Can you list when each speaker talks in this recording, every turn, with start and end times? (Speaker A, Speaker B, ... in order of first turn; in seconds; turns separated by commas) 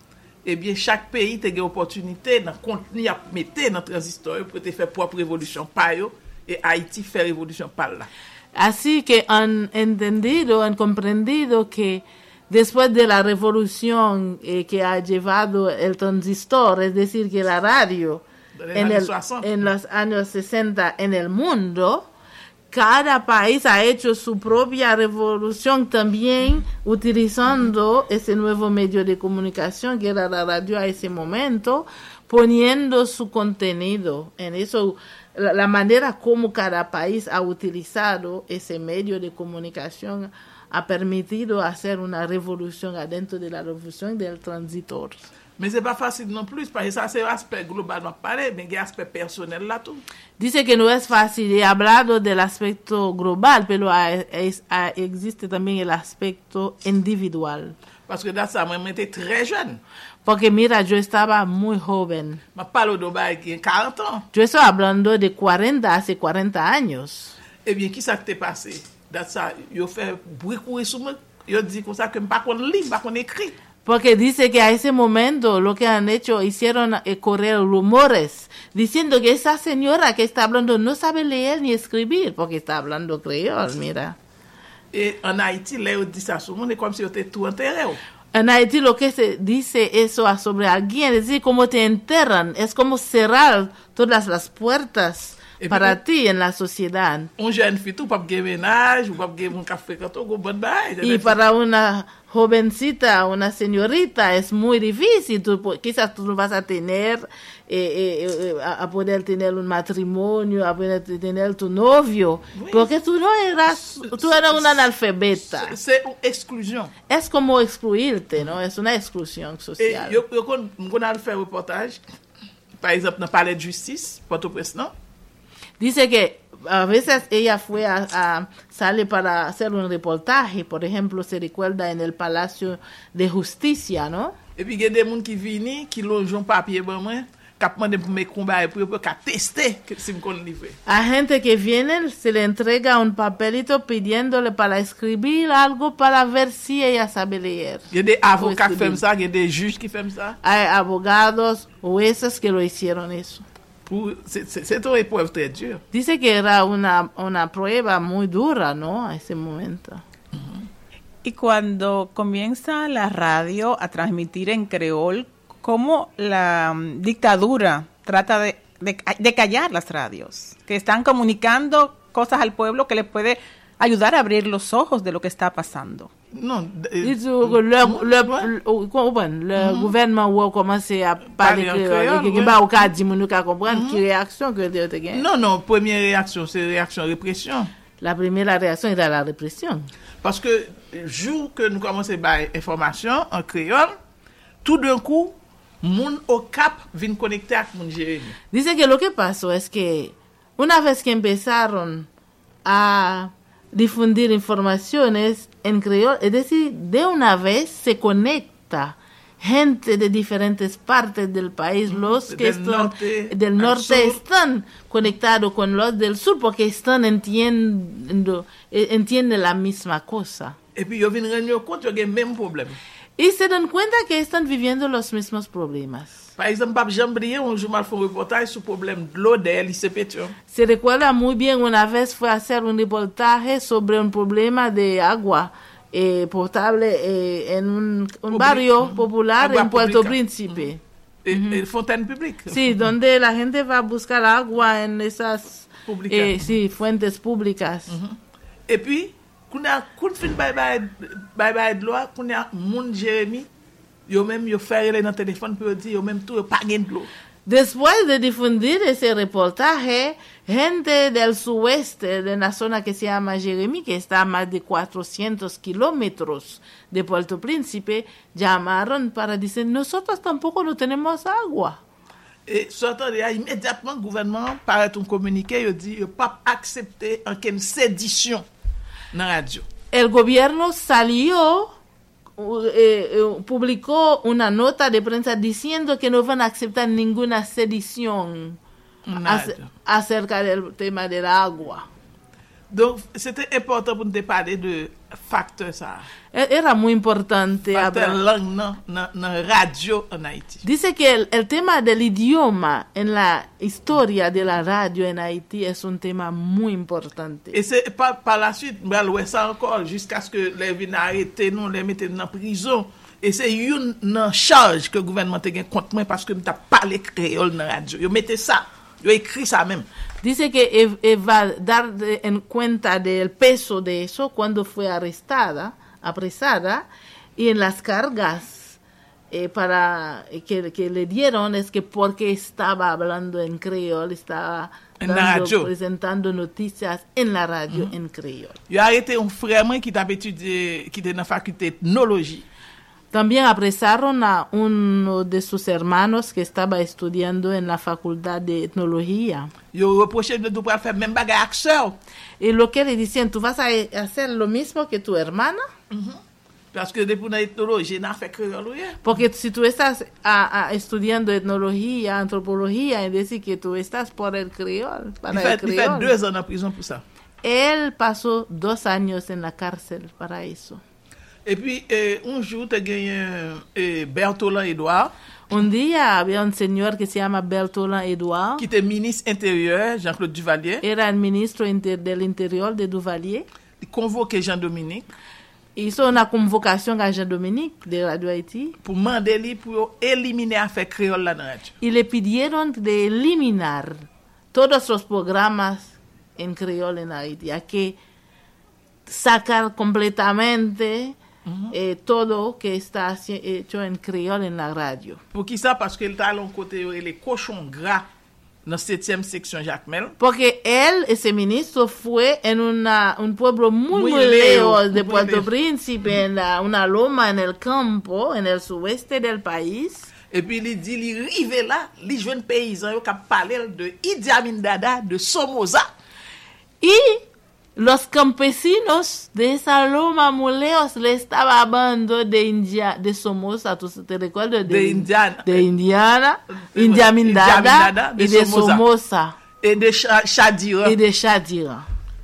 Speaker A: 0.4-8.1, Speaker B: 8.5-22.1, Speaker A: 18.5-19.5, Speaker B: 22.7-45.3, Speaker A: 45.6-50.0, Speaker B: 50.4-57.7, Speaker A: 58.1-59.8, Speaker B: 60.2-62.4, Speaker A: 62.5-64.3, Speaker B: 64.3-67.3, Speaker A: 67.6-73.5, Speaker B: 73.8-84.2, Speaker A: 84.9-88.0, Speaker B: 88.3-97.3, Speaker A: 95.6-96.0, Speaker A: 97.4-101.4, Speaker B: 101.0-115.7, Speaker A: 112.5-112.9, Speaker A: 113.8-114.8, Speaker A: 115.5-116.9, Speaker B: 117.1-120.2, Speaker A: 119.8-122.0, Speaker A: 122.8-124.9, Speaker B: 125.8-134.3, Speaker A: 134.6-140.8, Speaker B: 140.8-149.0, Speaker A: 147.9-150.4, Speaker B: 150.4-153.4, Speaker A: 153.8-155.8, Speaker B: 155.9-160.0, Speaker C: 161.2-176.1, Speaker A: 176.3-178.5, Speaker B: 177.0-185.2, Speaker A: 179.6-179.9, Speaker A: 181.4-182.9, Speaker A: 183.7-184.0, Speaker A: 185.1-187.7, Speaker B: 188.0-189.9, Speaker A: 190.2-193.9, Speaker A: 194.6-198.3, Speaker B: 198.5-202.1, Speaker B: 202.6-220.6, Speaker A: 211.9-214.2, Speaker A: 220.7-222.8, Speaker B: 223.2-226.2, Speaker A: 226.4-230.3, Speaker B: 230.5-241.6, Speaker A: 238.3-240.6, Speaker A: 241.2-242.7, Speaker B: 242.5-248.0, Speaker A: 245.9-246.4, Speaker A: 247.9-253.5, Speaker A: 254.1-257.1, Speaker B: 257.4-271.8, Speaker A: 272.4-278.4, Speaker A: 279.1-279.7, Speaker B: 279.9-281.7, Speaker B: 282.4-288.6, Speaker A: 289.1-289.7, Speaker B: 289.2-291.9, Speaker A: 292.7-296.1, Speaker B: 296.3-298.2, Speaker A: 297.7-300.6, Speaker B: 300.6-307.6, Speaker A: 307.5-319.9, Speaker B: 320.2-328.8, Speaker B: 329.3-338.6, Speaker A: 335.0-335.7, Speaker A: 338.7-342.4, Speaker B: 343.1-349.5, Speaker A: 349.7-352.0, Speaker B: 352.4-355.6, Speaker A: 355.9-356.2, Speaker A: 356.7-359.0, Speaker B: 359.0-366.1, Speaker A: 365.3-367.0, Speaker B: 367.4-370.8, Speaker A: 371.4-375.1, Speaker B: 375.5-378.6, Speaker A: 378.6-380.8, Speaker B: 380.8-383.4, Speaker A: 383.8-385.1, Speaker B: 385.8-388.8, Speaker A: 388.8-391.7, Speaker B: 391.8-398.0, Speaker B: 399.1-401.2, Speaker A: 401.4-401.7, Speaker B: 401.7-405.2, Speaker A: 405.3-408.1, Speaker A: 408.6-410.1, Speaker B: 410.2-420.1, Speaker A: 413.9-415.5, Speaker A: 420.3-425.9, Speaker B: 426.8-427.2, Speaker B: 427.8-439.4, Speaker A: 434.7-435.6, Speaker A: 436.5-438.8, Speaker A: 439.6-441.0, Speaker B: 440.8-441.9